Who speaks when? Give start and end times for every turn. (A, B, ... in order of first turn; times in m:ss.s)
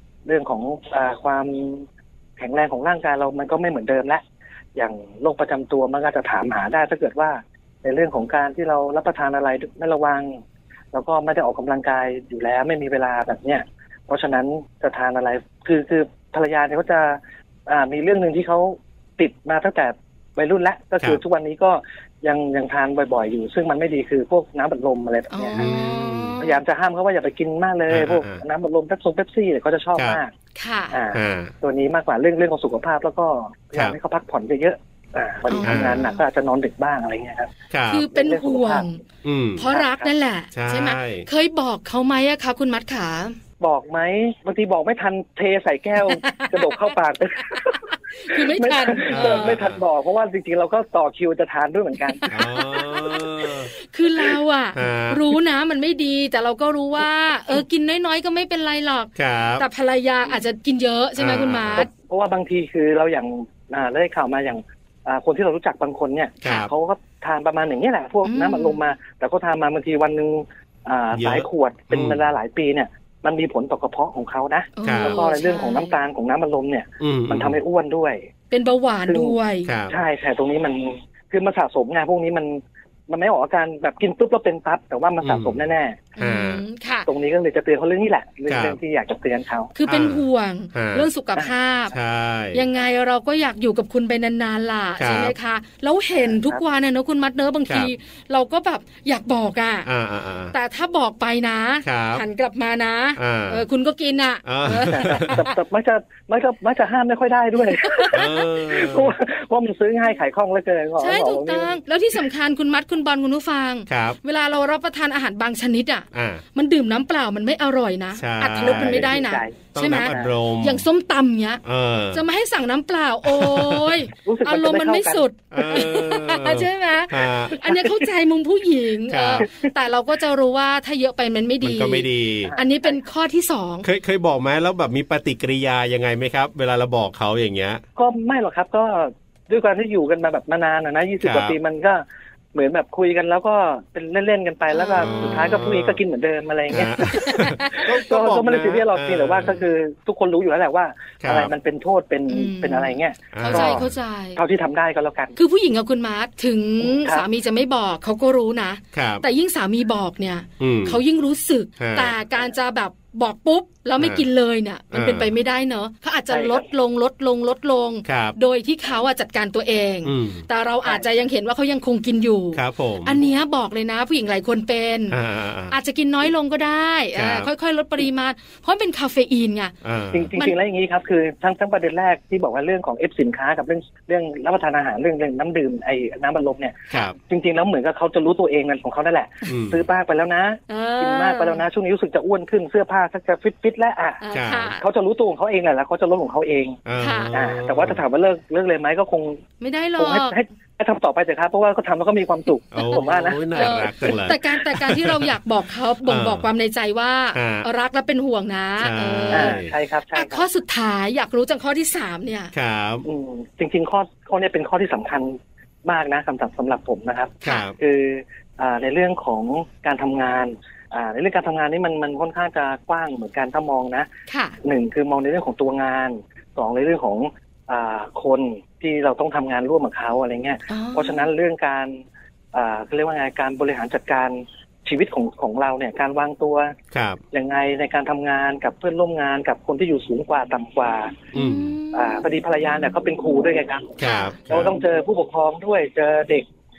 0:00.2-0:01.8 A
0:02.4-0:04.2 A
0:04.8-0:10.4 A
0:10.9-0:25.6 A
0:25.3-0:26.6 B
0:25.6-0:26.4 C
0:26.4-0:30.3 A
0:27.9-0:28.4 C
0:30.6-0:31.0 B
0:30.9-0:37.5 A
0:31.1-0:31.5 C
0:35.5-0:36.2 B
0:35.6-0:36.0 C
0:37.7-0:38.0 C
0:37.9-0:39.0 B
0:38.1-0:38.9 A
0:39.2-0:39.7 C
0:39.6-0:43.4 B
0:39.7-0:40.1 A
0:40.5-0:41.3 C
0:43.6-0:52.2 A
0:46.0-0:46.9 B
0:47.5-0:49.6 B
0:49.1-0:49.8 C
0:52.1-1:01.9 B
0:52.3-0:53.7 C
0:54.7-0:55.2 C
0:59.2-0:59.6 C
1:01.2-1:01.9 C
1:01.8-1:18.2 A
1:06.4-1:06.7 C
1:08.2-1:08.8 B
1:11.1-1:12.2 C
1:14.8-1:16.0 B
1:14.8-1:15.2 C
1:17.0-1:17.6 C
1:18.5-1:19.7 B
1:19.1-1:19.4 A
1:19.6-1:19.9 C
1:19.9-1:26.1 A
1:25.2-1:25.6 C
1:26.2-1:27.1 B
1:26.2-1:26.6 C
1:27.1-1:29.7 A
1:28.5-1:28.8 C
1:29.7-1:31.9 B
1:29.9-1:31.1 C
1:31.9-1:32.6 C
1:32.5-1:39.9 B
1:35.0-1:35.3 C
1:36.3-1:36.6 A
1:39.8-1:40.5 C
1:40.5-1:45.5 B
1:41.8-1:42.2 C
1:43.2-1:43.6 C
1:44.4-1:45.4 C
1:44.8-1:51.7 A
1:47.8-1:48.3 B
1:48.1-1:49.1 C
1:51.0-2:01.6 B
1:53.9-1:54.2 C
1:56.1-1:56.4 C
1:58.2-1:59.1 C
1:58.6-2:00.3 A
1:59.7-2:00.8 C
2:01.6-2:02.2 C
2:02.1-2:13.8 B
2:03.2-2:04.0 C
2:04.2-2:05.9 A
2:05.5-2:07.6 C
2:07.6-2:08.0 A
2:09.1-2:09.4 C
2:11.6-2:12.5 C
2:12.4-2:13.0 A
2:13.8-2:17.8 C
2:18.0-2:33.8 A
2:21.2-2:21.6 C
2:24.7-2:25.6 B
2:25.0-2:26.0 C
2:26.7-2:29.6 C
2:27.1-2:27.9 B
2:31.2-2:31.5 C
2:32.3-2:34.4 B
2:33.3-2:33.9 C
2:34.4-2:35.3 A
2:35.4-2:55.2 B
2:36.8-2:37.2 A
2:38.9-2:39.2 C
2:40.6-2:41.0 C
2:41.8-2:42.1 C
2:44.0-2:44.2 C
2:44.9-2:45.3 C
2:46.3-2:46.6 A
2:48.0-2:48.4 C
2:50.0-2:50.4 C
2:52.5-2:53.2 C
2:55.1-2:55.7 C
2:55.7-2:59.7 B
2:57.1-2:57.5 C
2:59.8-3:00.3 C
3:00.1-3:14.2 A
3:06.9-3:07.2 C
3:09.5-3:09.8 C
3:10.7-3:11.6 B
3:14.2-3:14.8 B
3:14.3-3:14.7 C
3:14.8-3:16.8 A
3:16.8-3:18.0 C
3:17.0-3:17.3 B
3:17.3-3:19.4 A
3:19.6-3:20.4 B
3:20.0-3:24.2 A
3:22.7-3:25.3 C
3:23.5-3:29.6 B
3:26.0-3:26.5 C
3:27.3-3:27.7 C
3:28.8-3:29.7 C
3:29.3-3:30.4 A
3:30.1-3:32.5 B
3:32.5-3:33.0 C
3:33.0-3:44.1 A
3:37.4-3:37.8 C
3:44.3-3:44.6 B
3:44.6-3:52.0 A
3:50.7-3:51.3 B
3:52.5-3:56.7 A
3:56.9-3:57.2 C
3:57.3-4:01.2 A
4:01.3-4:02.2 B
4:01.3-4:01.7 C
4:01.9-4:06.4 A
4:04.0-4:04.8 C
4:04.0-4:04.4 B